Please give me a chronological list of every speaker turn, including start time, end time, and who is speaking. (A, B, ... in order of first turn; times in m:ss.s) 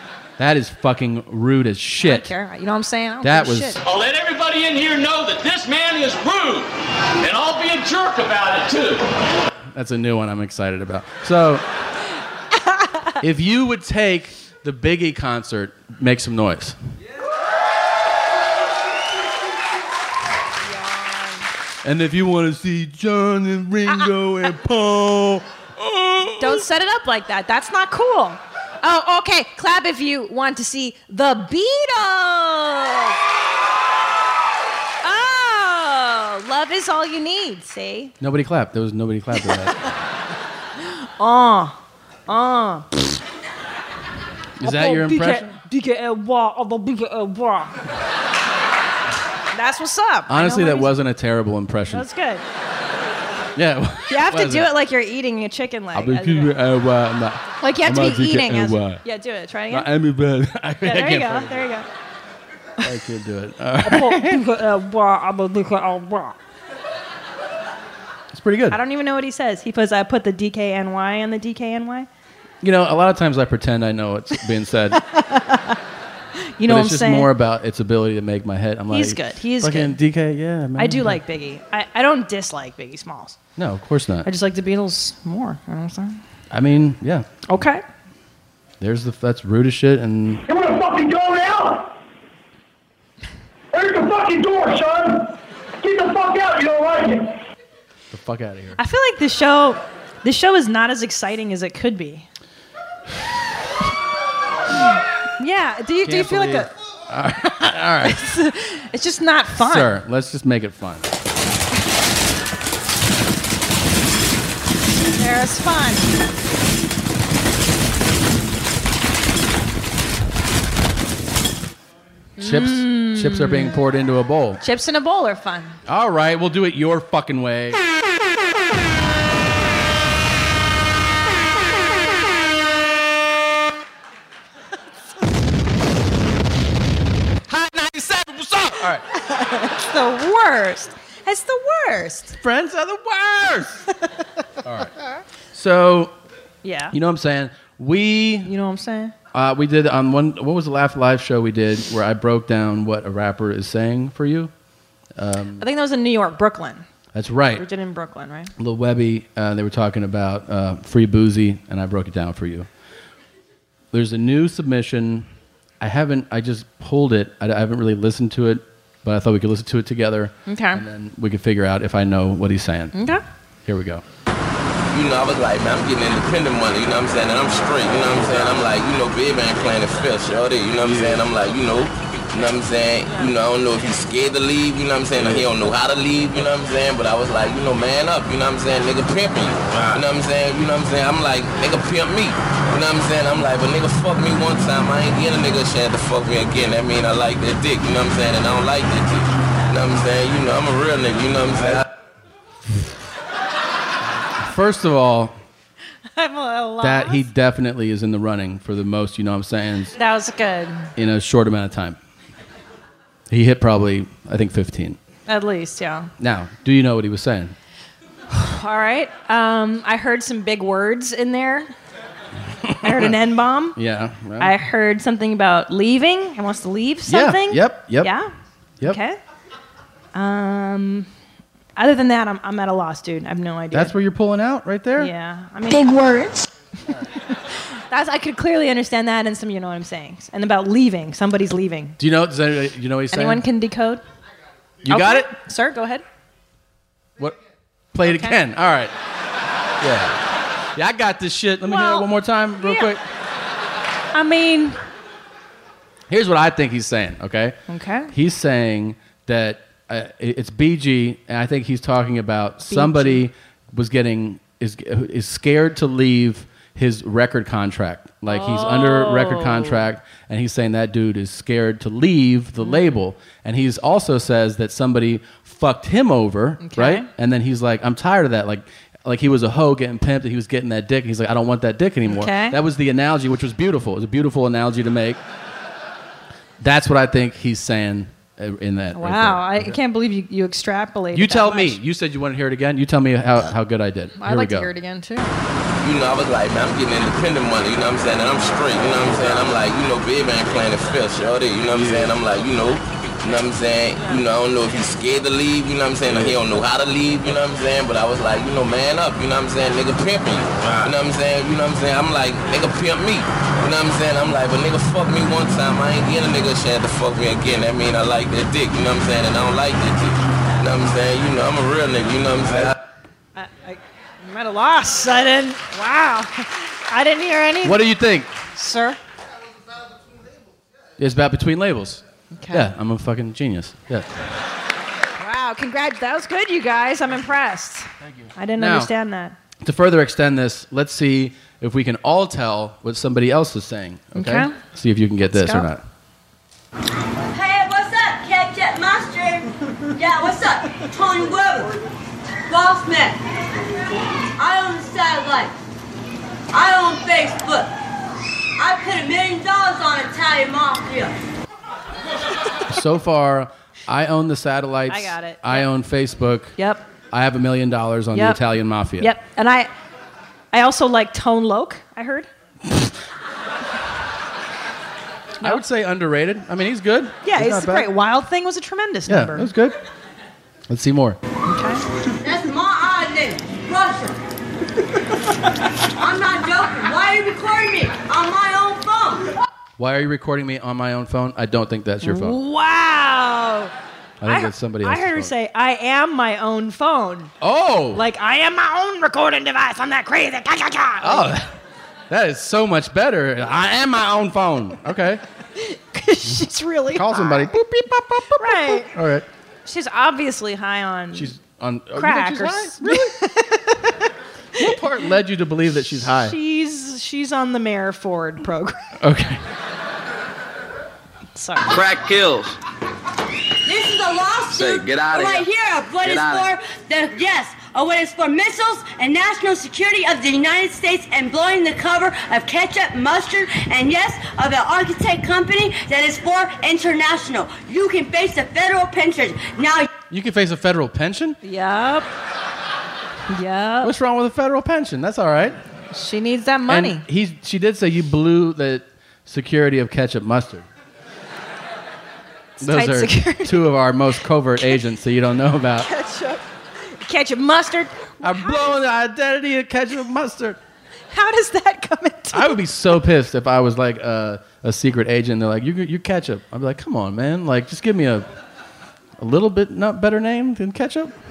0:00.4-0:02.3 A
0:02.0-0:03.8 B
0:03.2-0:03.8 A
0:03.8-0:09.1 C
0:09.7-0:11.6 A
0:12.7-0:13.1 B
0:13.2-0:16.8 A
0:20.6-0:21.5 B
0:21.8-0:26.6 A
0:26.4-0:33.2 B
0:35.0-0:38.1 B
0:38.2-0:39.8 A
0:41.2-0:41.8 B
0:42.3-0:42.9 B
0:44.6-0:45.5 A
0:44.6-0:47.7 B
0:49.5-0:50.9 B
0:50.3-0:52.0 A
0:51.9-0:52.4 B
0:53.5-0:54.7 A
0:54.1-0:56.5 B
0:55.9-0:59.0 A
0:57.6-0:59.9 B
0:59.7-1:01.6 A
1:00.8-1:01.9 B
1:02.8-1:04.4 A
1:03.8-1:06.3 B
1:08.3-1:08.8 A
1:08.7-1:12.1 B
1:12.6-1:15.0 A
1:15.0-1:15.8 B
1:16.6-1:17.3 B
1:16.6-1:21.2 A
1:18.9-1:20.0 B
1:20.8-1:23.4 B
1:23.6-1:24.3 A
1:24.2-1:26.2 B
1:26.5-1:27.3 A
1:27.5-1:27.8 B
1:28.8-1:30.4 A
1:30.5-1:31.9 D
1:33.7-1:37.4 D
1:38.1-1:38.8 A
1:38.8-1:42.3 B
1:44.8-1:46.7 B
1:46.0-1:48.2 A
1:48.0-1:49.9 B
1:49.6-1:51.1 A
1:55.1-1:56.1 B
2:02.4-2:03.8 B
2:02.4-2:04.6 A
2:04.6-2:05.8 B
2:05.8-2:07.8 A
2:17.5-2:19.0 A
2:19.1-2:22.4 B
2:22.4-2:23.8 A
2:24.6-2:24.9 A
2:25.5-2:26.1 A
2:26.6-2:26.9 B
2:26.9-2:28.5 A
2:28.4-2:29.1 B
2:29.3-2:34.5 A
2:35.2-2:35.6 A
2:35.6-2:36.8 B
2:37.1-2:37.6 A
2:37.6-2:38.5 B
2:38.6-2:42.7 A
2:43.9-2:45.3 A
2:45.8-2:52.9 A
2:50.5-2:50.8 B
2:52.9-2:53.2 B
2:53.6-2:54.0 A
2:54.9-3:21.9 E
3:24.4-3:25.4 A
3:26.1-3:27.2 B
3:26.8-3:29.9 A
3:30.0-3:30.9 B
3:31.0-3:32.0 A
3:33.3-3:35.0 A
3:35.3-3:36.1 B
3:36.2-3:37.5 A
3:38.3-3:41.7 B
3:42.6-3:43.1 A
3:42.8-3:43.8 B
3:43.8-3:44.5 A
3:44.4-3:48.3 B
3:47.0-3:48.1 A
3:48.8-3:49.2 B
3:50.1-3:51.1 B
3:51.8-3:53.9 B
3:53.7-3:55.1 A
3:55.0-3:57.4 B
3:57.9-4:02.0 B
4:02.0-4:03.4 A
4:03.1-4:04.0 B
4:04.8-4:05.3 A
4:04.9-4:06.0 B
4:07.9-4:08.9 A
4:08.0-4:08.4 B
4:09.8-4:10.2 A
4:10.7-4:13.0 A
4:11.6-4:12.9 B
4:14.1-4:14.8 B
4:16.1-4:17.6 A
4:17.7-4:18.1 B
4:18.1-4:45.2 A
4:22.7-4:23.2 B
4:28.3-4:29.8 B
4:32.6-4:32.9 B
4:36.6-4:37.1 B
4:42.1-4:42.6 B
4:46.6-4:49.7 A
4:48.9-4:51.8 B
4:51.1-4:54.7 A
4:54.2-4:55.3 B
4:55.8-5:22.8 E
5:23.4-5:27.8 B
5:27.6-5:28.3 A
5:28.5-5:29.0 B
5:31.0-5:34.1 A
5:32.3-5:32.7 B
5:35.2-5:39.4 B
5:38.6-5:38.9 A
5:39.6-5:45.8 A
5:44.1-5:44.6 B
5:45.3-5:45.6 B
5:47.3-5:51.7 F
5:52.5-5:53.2 F
5:54.4-5:55.5 F
5:56.5-5:57.7 F
5:58.6-6:01.1 F
6:02.7-6:06.5 A
6:04.9-6:05.7 B
6:06.6-6:06.8 B
6:07.1-6:09.1 A
6:08.1-6:08.4 B
6:09.0-6:09.7 B
6:10.5-6:12.3 B
6:15.4-6:17.9 A
6:17.2-6:19.5 B
6:19.1-6:19.8 A
6:20.7-6:21.2 A
6:21.4-6:21.8 B
6:22.2-6:24.2 F
6:26.0-6:29.3 F
6:29.8-6:32.4 A
6:32.0-6:33.7 B
6:34.2-6:35.3 A
6:34.2-6:37.3 B
6:37.4-6:38.0 A
6:37.9-6:41.3 B
6:41.0-6:41.5 A
6:42.1-6:45.2 A
6:45.6-6:47.5 B
6:46.9-6:49.2 A
6:48.4-6:48.9 B
6:49.6-6:51.3 B
6:51.1-6:53.1 A
6:52.0-6:53.9 B
6:54.6-6:56.4 A
6:56.1-6:58.8 B
6:59.0-6:59.4 A
7:01.3-7:01.8 B
7:01.7-7:02.6 G
7:03.6-7:19.9 F
7:04.5-7:05.5 G
7:06.0-7:06.5 G
7:20.1-7:21.4 A
7:21.4-7:22.1 B
7:23.3-7:23.9 B
7:23.8-7:25.6 A
7:25.9-7:27.0 B
7:26.7-7:30.7 A
7:32.6-7:33.7 B
7:32.6-7:35.9 A
7:35.8-7:38.8 B
7:38.2-7:40.6 A
7:41.1-7:42.6 B
7:42.3-7:48.3 A
7:49.2-7:51.1 A